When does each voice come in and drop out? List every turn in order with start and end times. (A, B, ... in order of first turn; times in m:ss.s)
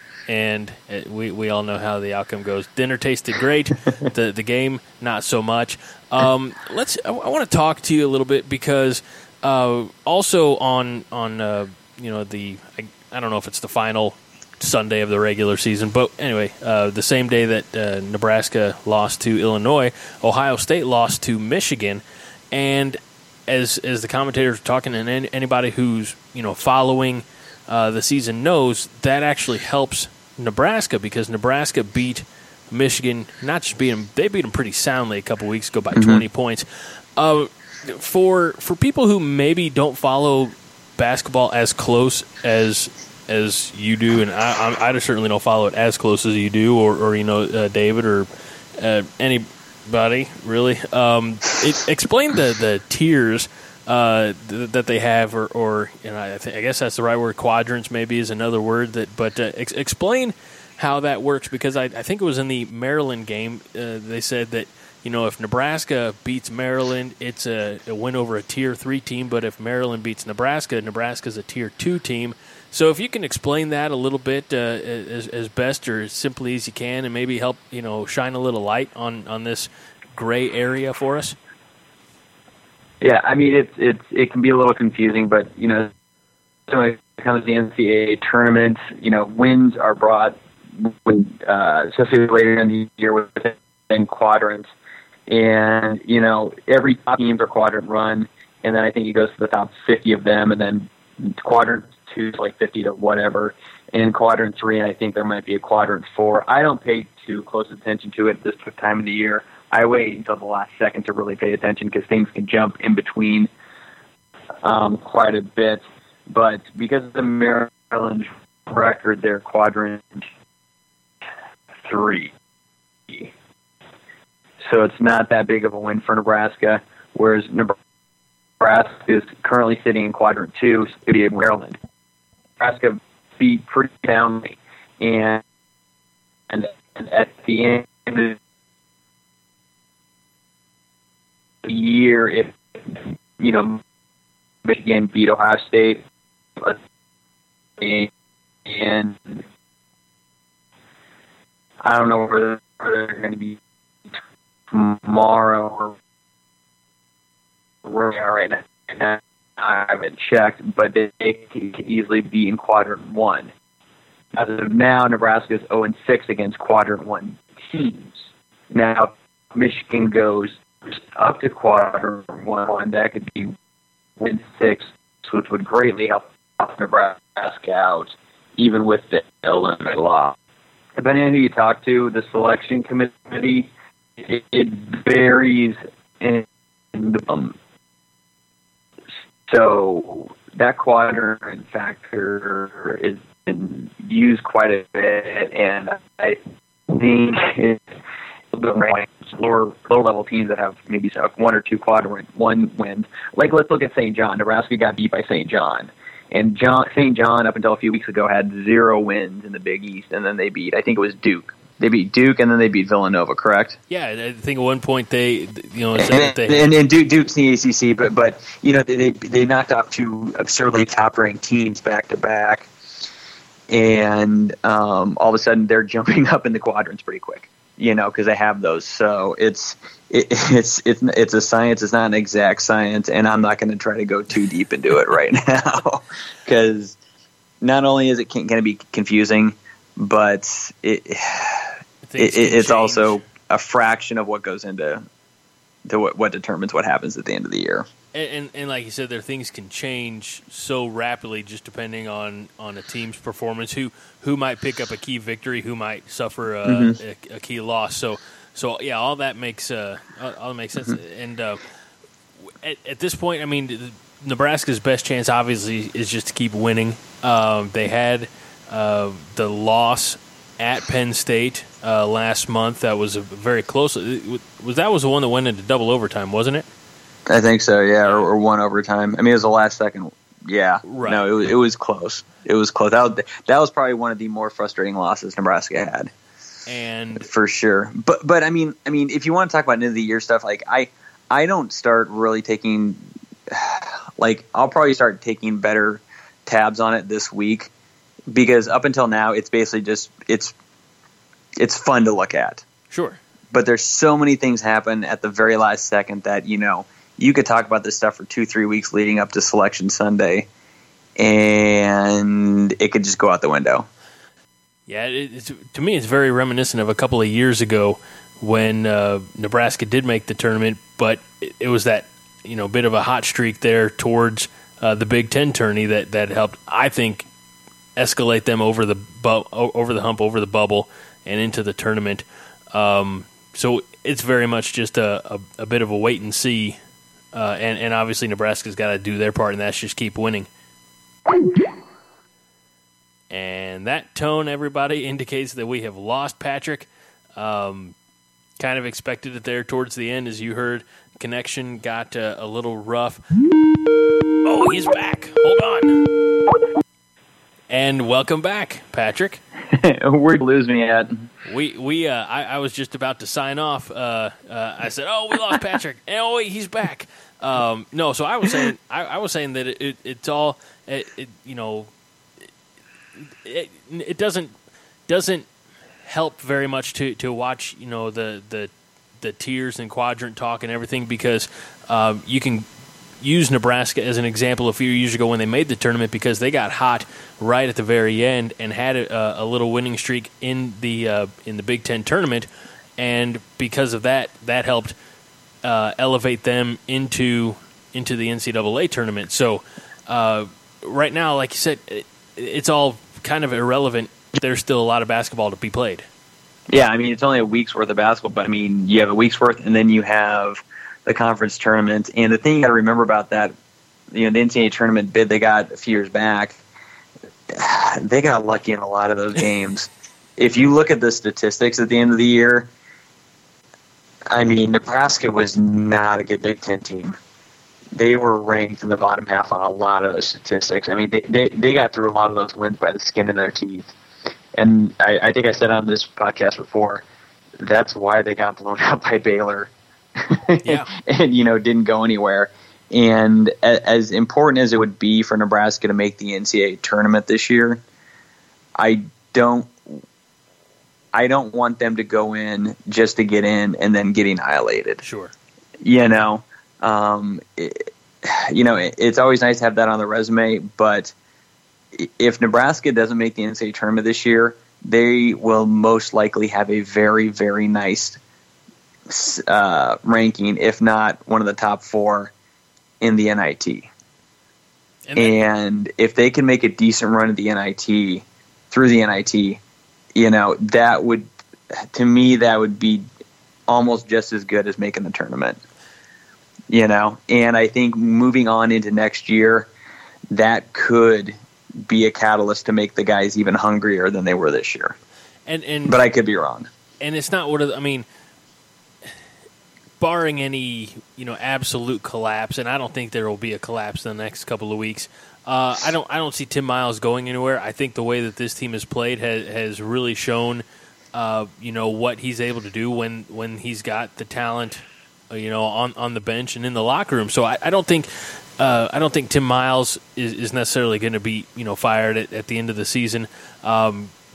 0:00.3-1:21.4 A
0:36.0-0:36.2 B
1:23.0-1:25.9 B
1:26.7-1:34.7 B
1:35.3-1:53.5 B
1:54.6-2:00.3 B
2:01.8-2:02.3 B
2:04.7-2:07.8 B
2:08.6-2:11.8 B
2:12.6-2:15.4 B
2:16.5-2:18.4 B
2:21.6-2:23.8 B
2:24.6-2:26.0 B
2:27.8-2:28.1 B
2:28.6-2:29.4 B
2:31.8-2:33.6 B
2:34.7-2:36.0 B
2:37.8-2:43.5 B
2:44.3-2:53.6 B
2:54.2-3:00.4 B
3:01.0-3:07.6 B
3:09.5-3:17.8 B
3:18.5-3:33.8 B
3:33.9-3:36.7 A
3:36.0-3:42.7 B
3:43.7-3:57.0 B
3:57.6-4:05.0 B
4:02.1-4:03.2 A
4:05.9-4:07.9 B
4:08.2-4:21.6 A
4:16.7-4:17.0 B
4:22.6-4:36.7 A
4:37.3-4:46.1 B
4:38.0-4:38.3 A
4:40.8-4:41.2 A
4:46.7-4:47.3 A
4:47.2-4:57.7 B
4:58.3-5:00.5 B
5:01.6-5:02.6 B
5:02.9-5:03.2 A
5:03.5-5:10.5 B
5:11.2-5:13.9 B
5:14.9-5:27.3 A
5:28.0-5:36.8 A
5:37.3-5:40.5 A
5:43.3-5:48.0 A
5:48.6-5:53.2 A
5:54.4-5:56.0 A
5:57.7-5:59.4 A
5:59.7-6:01.3 B
6:01.4-6:11.9 A
6:13.4-6:14.5 A
6:15.1-6:15.5 A
6:16.0-6:22.7 A
6:23.2-6:35.0 A
6:35.6-6:46.1 A
6:46.7-6:53.5 B
6:54.1-6:56.6 B
6:57.5-7:02.7 B
7:04.3-7:07.2 B
7:08.0-7:13.9 B
7:14.6-7:17.0 B
7:17.6-7:27.8 B
7:20.6-7:20.9 A
7:28.8-7:30.0 B
7:31.1-7:35.0 B
7:35.0-7:35.3 A
7:35.8-7:41.1 B
7:41.9-7:48.2 B
7:49.1-7:52.3 B
7:53.0-7:53.9 B
7:55.1-7:55.4 A
7:55.2-7:59.6 B
8:00.2-8:01.3 B
8:01.9-8:03.0 B
8:03.7-8:05.6 B
8:06.7-8:09.7 B
8:10.3-8:15.0 B
8:15.5-8:16.0 A
8:15.9-8:16.7 B
8:17.0-8:18.0 A
8:20.0-8:44.1 A